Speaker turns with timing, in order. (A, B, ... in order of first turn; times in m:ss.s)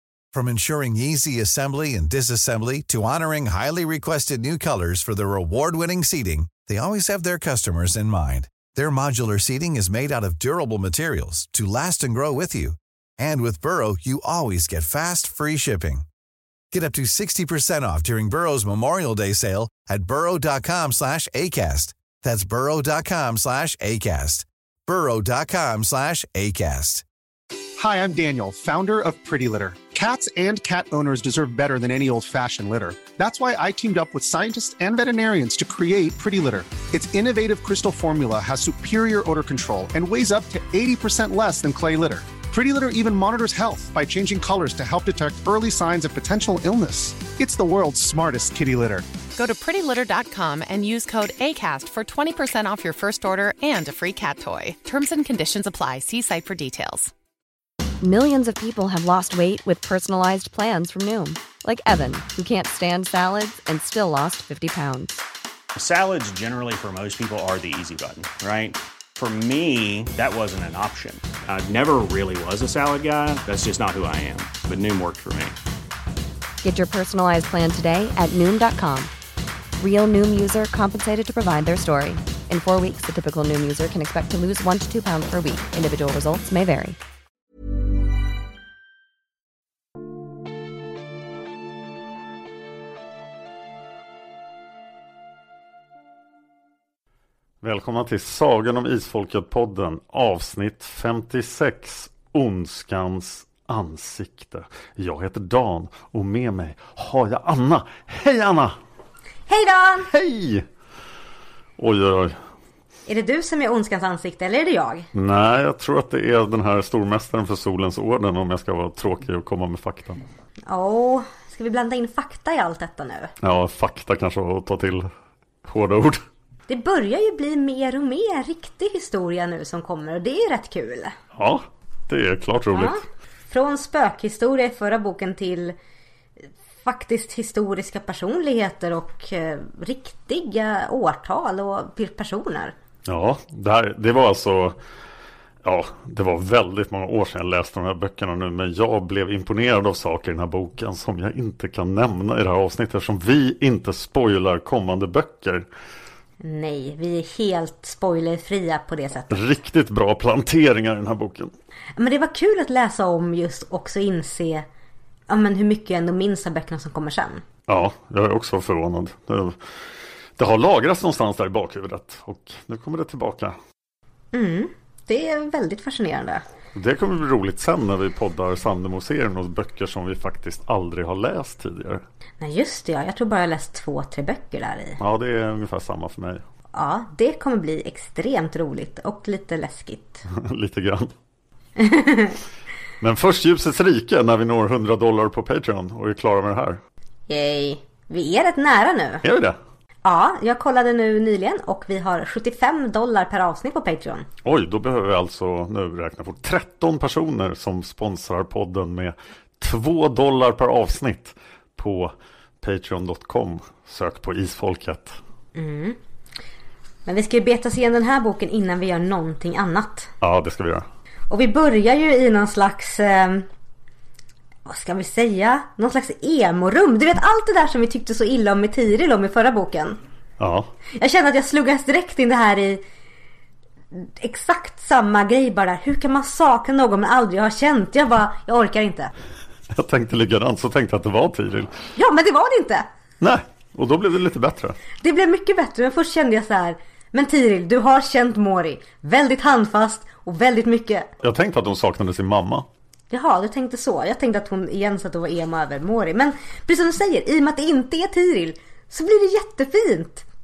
0:00.3-0:16.0 A
0:16.7-0:27.0 A
0:27.8-0:49.1 B
0:49.4-0:57.1 C
0:58.0-1:05.2 D
1:05.8-1:15.6 E
1:16.6-1:19.1 D
1:19.8-1:27.0 D
1:37.6-1:48.8 F
1:49.5-1:50.1 G
1:50.1-1:50.6 F
1:51.8-1:52.4 F
1:53.1-1:55.1 G
1:55.1-2:00.2 F
2:00.7-2:03.3 G
2:03.4-2:05.1 F
2:05.6-2:06.2 F
2:06.7-2:11.1 G
2:11.3-2:13.0 F
2:12.7-2:15.8 G
2:16.8-2:22.7 G
2:23.1-2:24.8 F
2:25.6-2:35.7 F
2:36.4-2:39.4 G
2:39.3-2:41.5 F
2:42.0-2:44.6 G
2:45.3-2:47.4 G
2:47.7-2:49.6 F
2:50.4-2:53.6 F
2:54.3-2:56.4 G
2:56.7-3:02.0 F
3:02.4-3:05.0 G
3:05.0-3:06.4 F
3:06.7-3:10.2 G
3:10.3-3:11.1 F
3:11.8-3:12.4 G
3:13.0-3:16.8 F
3:17.3-3:19.2 G
3:19.2-3:19.6 F
3:20.0-3:24.3 G
3:24.4-3:35.2 F
3:35.5-3:36.0 G
3:37.0-3:40.1 G
3:40.2-3:40.8 F
3:41.3-3:43.5 G
3:44.6-3:50.0 G
3:50.4-3:50.7 F
3:50.9-3:52.8 G
3:53.9-3:59.1 G
3:59.7-4:01.7 F
4:02.0-4:02.9 G
4:03.2-4:04.8 F
4:05.0-4:11.1 G
4:11.2-4:12.6 F
4:13.1-4:20.2 G